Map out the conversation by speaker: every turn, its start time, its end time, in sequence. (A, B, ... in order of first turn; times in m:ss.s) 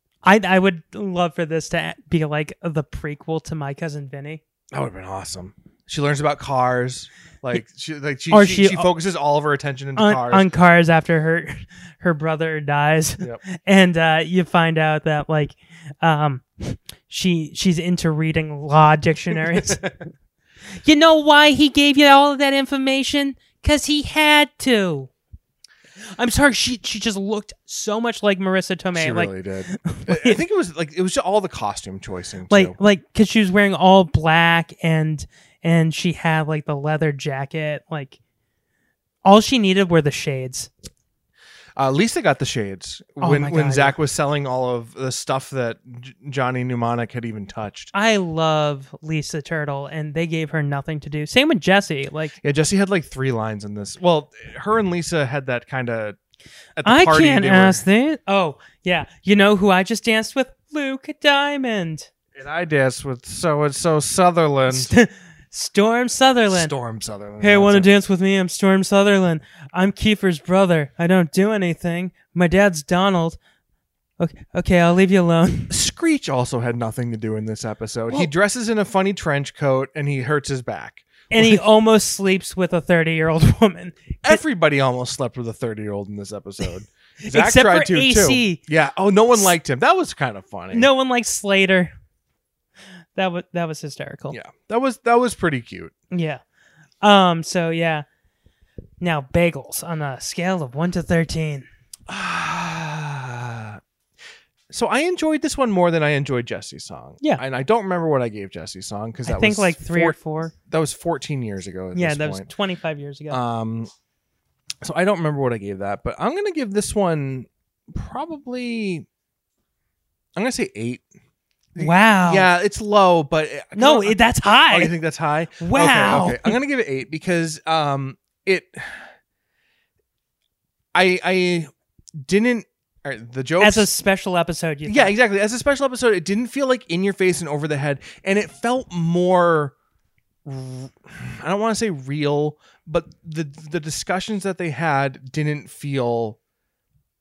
0:00.2-0:04.4 A
0:04.7-0:10.5 B
0:08.3-0:08.9 A
0:10.0-0:19.8 A
0:19.3-0:20.0 B
0:20.8-0:25.1 A
0:26.1-0:30.4 A
0:28.9-0:32.8 B
0:32.5-0:38.2 A
0:39.2-0:40.7 A
0:41.8-0:47.9 B
0:43.2-0:44.0 A
0:47.9-0:52.4 A
0:52.4-0:56.2 B
0:56.8-0:57.8 B
0:56.8-1:02.1 A
1:02.4-1:04.9 B
1:04.7-1:06.7 A
1:06.5-1:07.9 B
1:07.4-1:13.4 A
1:14.2-1:15.7 A
1:15.7-1:21.6 B
1:21.3-1:24.4 A
1:24.2-1:30.9 B
1:27.2-1:28.6 A
1:30.7-1:31.9 A
1:33.2-1:34.4 A
1:34.3-1:35.9 B
1:36.1-1:36.4 A
1:37.0-1:38.0 A
1:39.0-1:41.7 A
1:42.1-1:43.8 B
1:44.7-1:52.5 B
1:49.3-1:50.5 A
1:51.9-1:53.4 A
1:53.3-1:53.9 B
1:54.8-1:59.1 B
2:00.4-2:01.1 B
2:01.8-2:09.1 B
2:01.8-2:02.5 A
2:03.8-2:04.9 A
2:05.6-2:06.6 A
2:10.9-2:13.9 B
2:13.6-2:15.2 A
2:14.9-2:19.7 B
2:20.4-2:26.4 B